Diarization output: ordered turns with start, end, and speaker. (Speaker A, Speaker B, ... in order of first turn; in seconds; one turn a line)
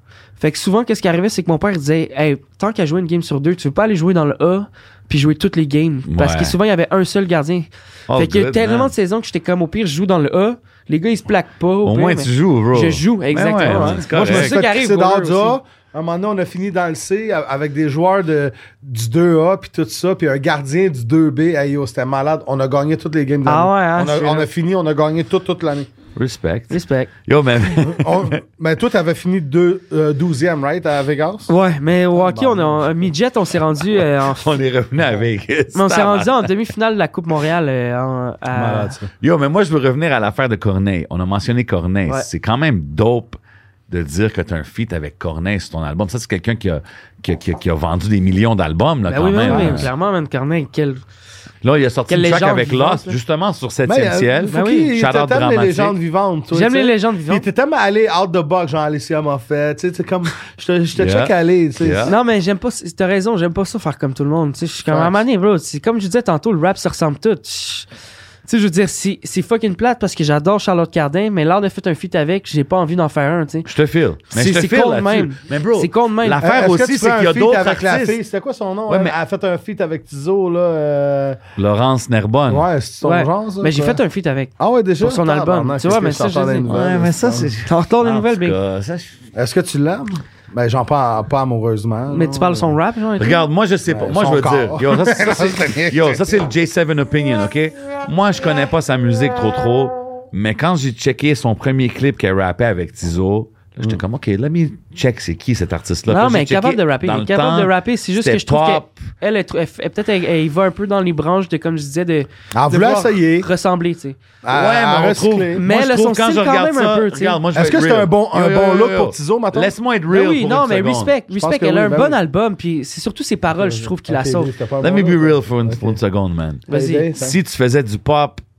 Speaker A: 0.4-15.6
Speaker B: 6.1-6.5
Speaker B: 8.1-8.9
Speaker B: 11.8-14.5
Speaker C: 13.7-25.9
Speaker A: 23.5-24.5
Speaker B: 26.2-28.4
Speaker A: 26.7-27.1
Speaker C: 27.8-31.5
Speaker A: 31.5-34.5
Speaker C: 32.1-33.1
Speaker B: 34.3-36.5
Speaker A: 35.7-39.0
Speaker C: 38.5-39.1
Speaker B: 39.2-49.9
Speaker A: 49.1-51.0
Speaker C: 49.5-49.9
Speaker B: 51.6-56.0
Speaker A: 52.1-53.1
Speaker C: 53.9-62.2
Speaker A: 54.5-54.9
Speaker A: 56.5-57.5
Speaker B: 61.0-62.1
Speaker A: 62.0-67.9
Speaker C: 64.9-65.2
Speaker A: 68.5-73.7
Speaker B: 73.7-78.2
Speaker A: 74.3-76.4
Speaker C: 76.4-81.4
Speaker B: 78.9-79.2
Speaker B: 81.6-82.7
Speaker C: 82.5-84.0
Speaker A: 83.0-86.7
Speaker C: 84.6-87.5
Speaker B: 86.7-89.2
Speaker A: 87.7-88.6
Speaker C: 89.3-92.7
Speaker A: 92.1-93.5
Speaker B: 93.2-109.0
Speaker C: 93.9-96.4
Speaker A: 106.1-114.2
Speaker C: 112.5-113.5
Speaker C: 114.4-115.6
Speaker B: 114.5-121.1
Speaker A: 115.5-117.4
Speaker C: 117.5-119.7
Speaker A: 120.1-124.5
Speaker C: 121.3-122.2
Speaker C: 123.5-126.0
Speaker B: 124.8-128.4
Speaker A: 126.7-127.1
Speaker C: 126.7-127.4